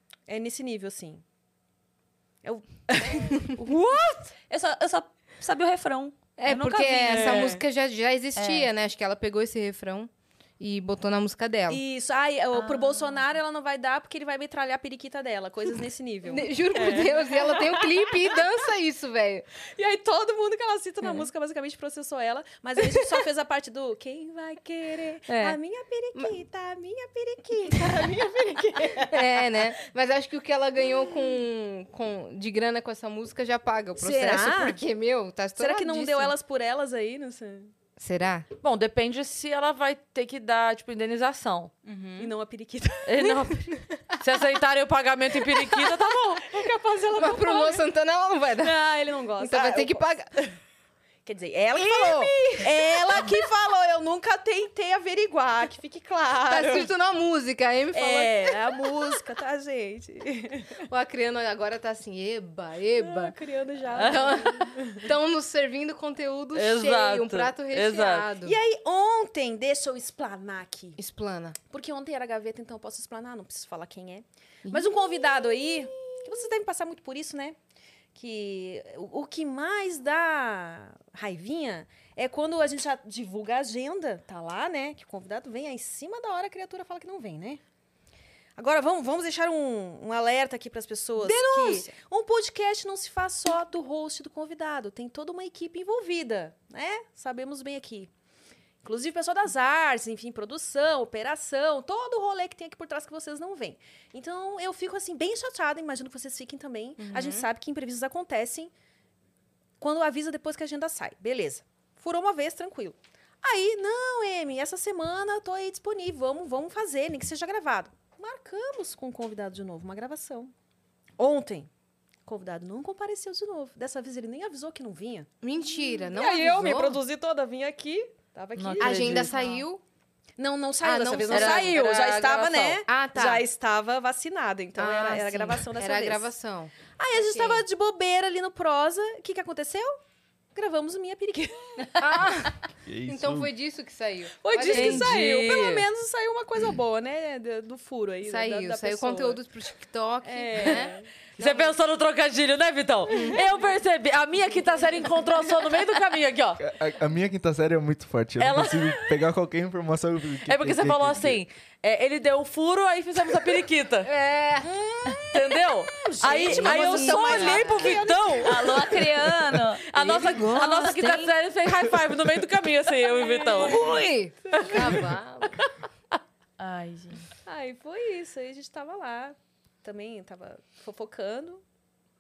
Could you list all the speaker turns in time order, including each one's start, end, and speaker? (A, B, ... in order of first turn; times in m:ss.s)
0:00.3-0:01.2 A
0:02.4-0:03.5 A
0:04.5-0:07.6 B
0:06.4-0:11.8 C
0:07.3-0:07.6 A
0:08.4-0:08.7 B
0:11.7-0:18.4 A
0:12.5-0:13.2 B
0:16.2-0:19.5 C
0:19.8-0:29.6 A
0:21.0-0:21.3 C
0:22.8-0:23.2 C
0:25.3-0:25.6 C
0:29.0-0:36.4 C
0:34.0-0:34.8 A
0:35.6-0:37.7 A
0:38.0-0:38.5 C
0:38.6-0:41.7 D
0:41.8-0:42.3 C
0:42.2-0:43.4 A
0:43.0-0:46.5 D
0:43.2-0:44.2 C
0:46.4-0:47.8 A
0:47.1-0:48.8 C
0:48.6-0:50.5 A
0:49.4-0:50.3 C
0:51.2-0:56.9 A
0:51.8-0:53.3 C
0:56.5-0:59.2 C
0:57.9-1:00.8 A
1:00.8-1:03.4 C
1:03.0-1:05.1 A
1:03.9-1:08.6 C
1:06.5-1:08.3 D
1:08.4-1:11.0 A
1:11.0-1:11.6 C
1:11.7-1:17.6 A
1:14.6-1:16.2 C
1:18.2-1:27.6 A
1:28.6-1:38.1 A
1:31.3-1:31.7 D
1:38.8-1:48.7 A
1:47.0-1:47.5 C
1:49.8-2:00.5 A
2:01.2-2:01.7 A
2:02.3-2:09.6 A
2:05.4-2:07.0 C
2:08.6-2:09.4 D
2:08.8-2:09.8 C
2:10.4-2:16.3 A
2:10.8-2:11.8 C
2:11.3-2:12.8 D
2:12.9-2:13.4 C
2:14.8-2:17.6 C
2:17.0-2:20.0 A
2:20.6-2:22.3 A
2:22.0-2:25.1 C
2:22.9-2:23.5 E
2:24.4-2:29.4 A
2:24.7-2:25.9 D
2:28.2-2:31.7 C
2:30.2-2:31.1 A
2:31.4-2:36.6 D
2:33.1-2:33.4 C
2:33.1-2:33.4 A
2:36.6-2:41.4 E
2:38.4-2:39.2 D
2:40.5-2:44.1 D
2:44.0-2:45.2 C
2:44.8-2:45.2 A
2:45.2-2:48.8 D
2:46.0-2:48.7 A
2:46.2-2:48.2 C
2:48.4-2:51.3 B
2:49.9-2:53.8 D
2:50.0-2:51.0 C
2:53.2-2:53.9 A
2:53.5-2:55.6 C
2:54.5-2:55.1 A
2:57.4-3:01.6 A